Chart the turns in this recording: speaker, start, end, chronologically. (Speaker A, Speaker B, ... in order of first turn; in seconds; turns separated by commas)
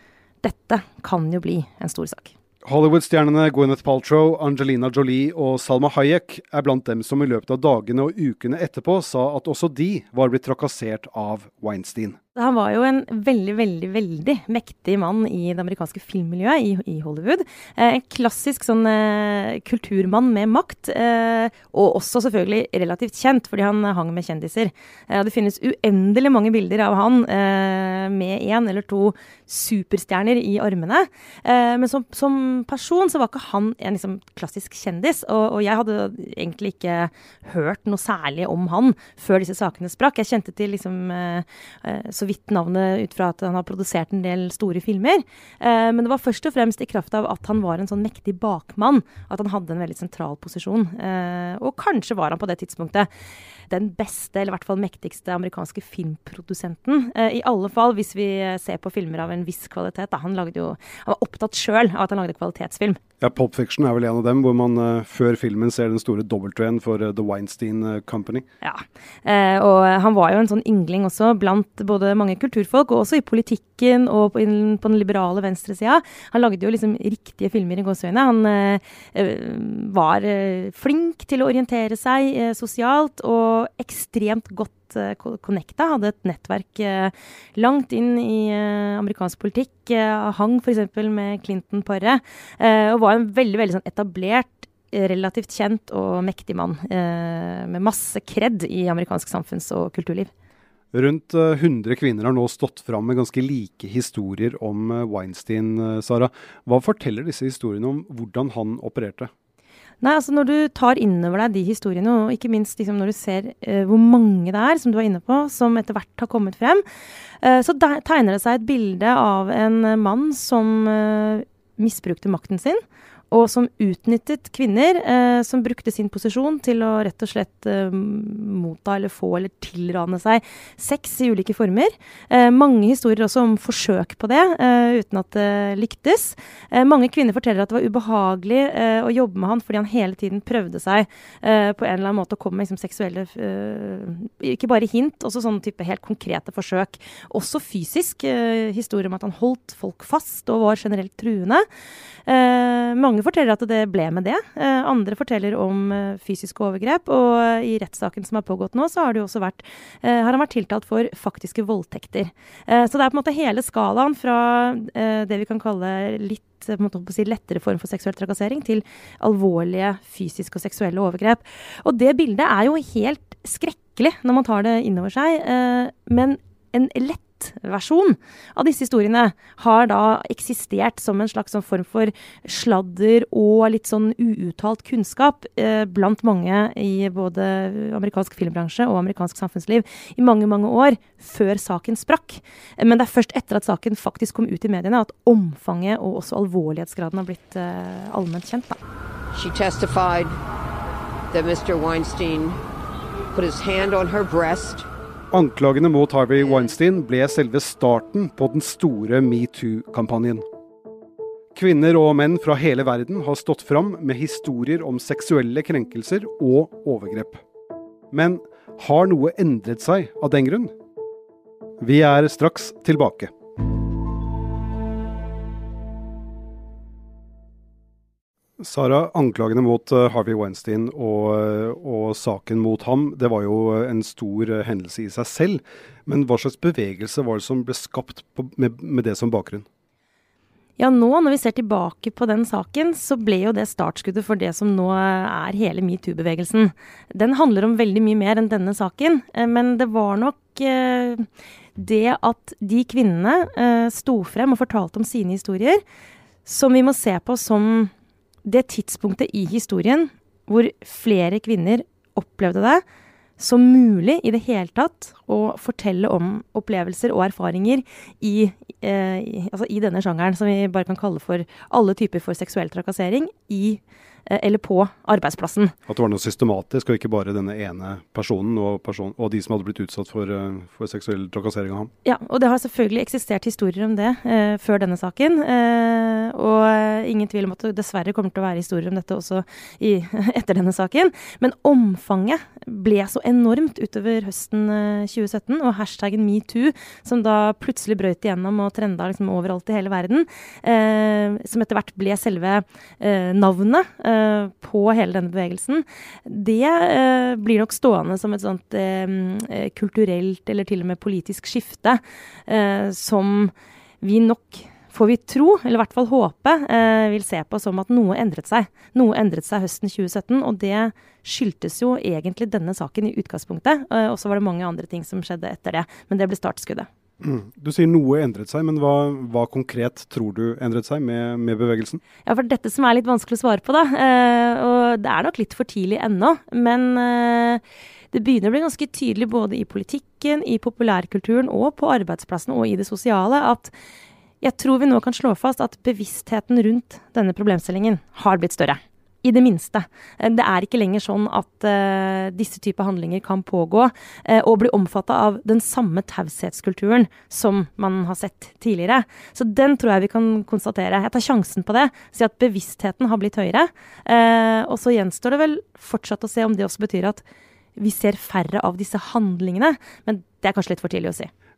Speaker A: 0.4-2.3, Speaker B: 2.6-12.2, Speaker A: 12.4-53.1, Speaker A: 53.7-63.0, Speaker B: 63.2-68.5, Speaker A: 68.6-100.3, Speaker B: 100.9-109.3, Speaker A: 110.0-116.8, Speaker A: 117.4-151.7, Speaker A: 152.3-198.8, Speaker C: 199.3-200.4, Speaker C: 201.3-202.6, Speaker C: 203.3-204.9, Speaker B: 205.3-210.4, Speaker B: 211.6-217.4, Speaker B: 218.1-220.7, Speaker B: 221.8-223.3, Speaker B: 228.6-239.7, Speaker A: 240.8-255.8, Speaker A: 256.4-257.9, Speaker A: 258.4-262.8, Speaker A: 263.4-275.8, Speaker B: 275.9-281.9, Speaker A: 282.1-326.9, Speaker B: 327.2-332.0, Speaker A: 332.2-343.7, Speaker A: 344.4-367.2, Speaker A: 367.8-371.3